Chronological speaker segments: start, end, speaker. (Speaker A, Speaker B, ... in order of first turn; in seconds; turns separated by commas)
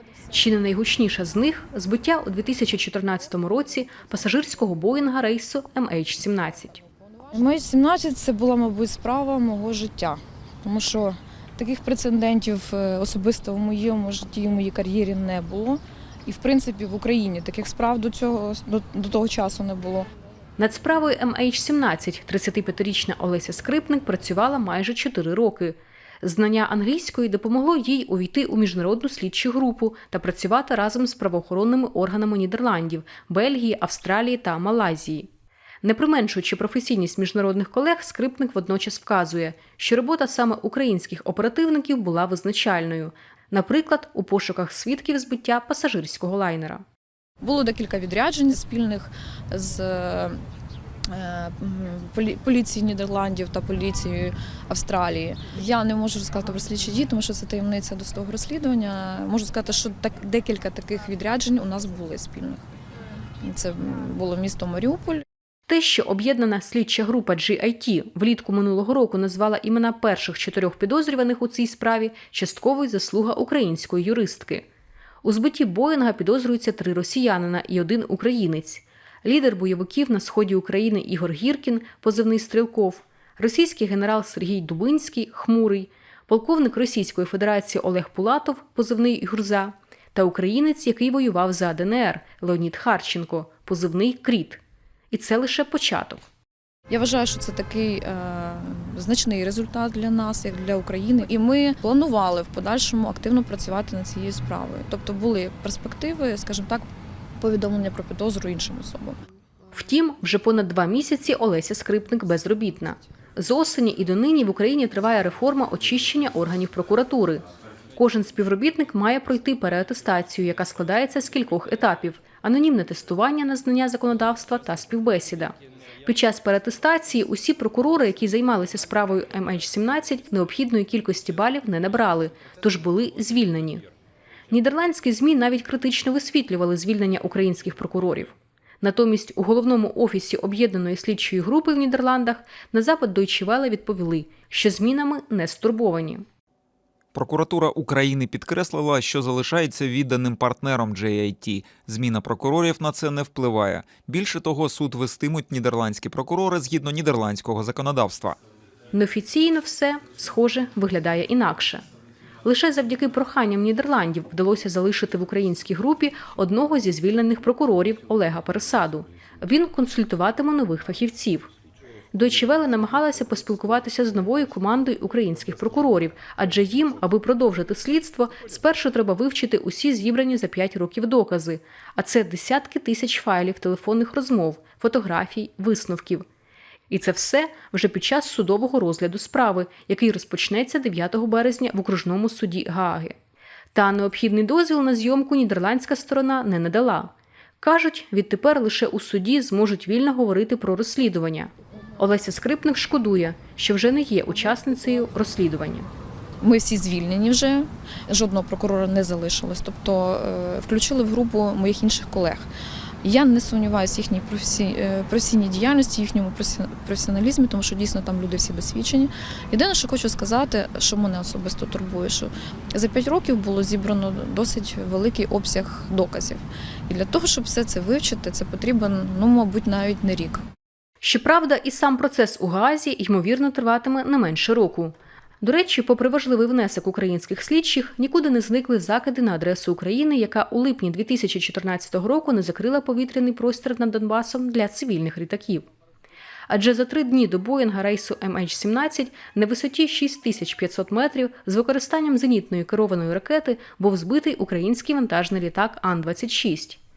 Speaker A: 0.3-6.8, Speaker B: 7.3-20.1, Speaker A: 20.6-35.3, Speaker A: 35.8-46.8, Speaker B: 47.4-50.4, Speaker B: 51.1-62.6, Speaker B: 63.4-65.2, Speaker A: 65.7-74.7, Speaker A: 75.2-96.2, Speaker B: 96.9-106.9, Speaker B: 107.4-109.2, Speaker A: 109.7-117.4, Speaker A: 118.0-133.8, Speaker A: 134.5-146.2, Speaker C: 147.1-158.4, Speaker A: 158.9-161.8, Speaker A: 162.4-171.5, Speaker A: 172.1-186.2, Speaker A: 186.9-193.2, Speaker A: 193.7-205.9, Speaker B: 206.4-212.5, Speaker B: 213.0-230.4, Speaker A: 231.0-245.7, Speaker A: 246.5-256.8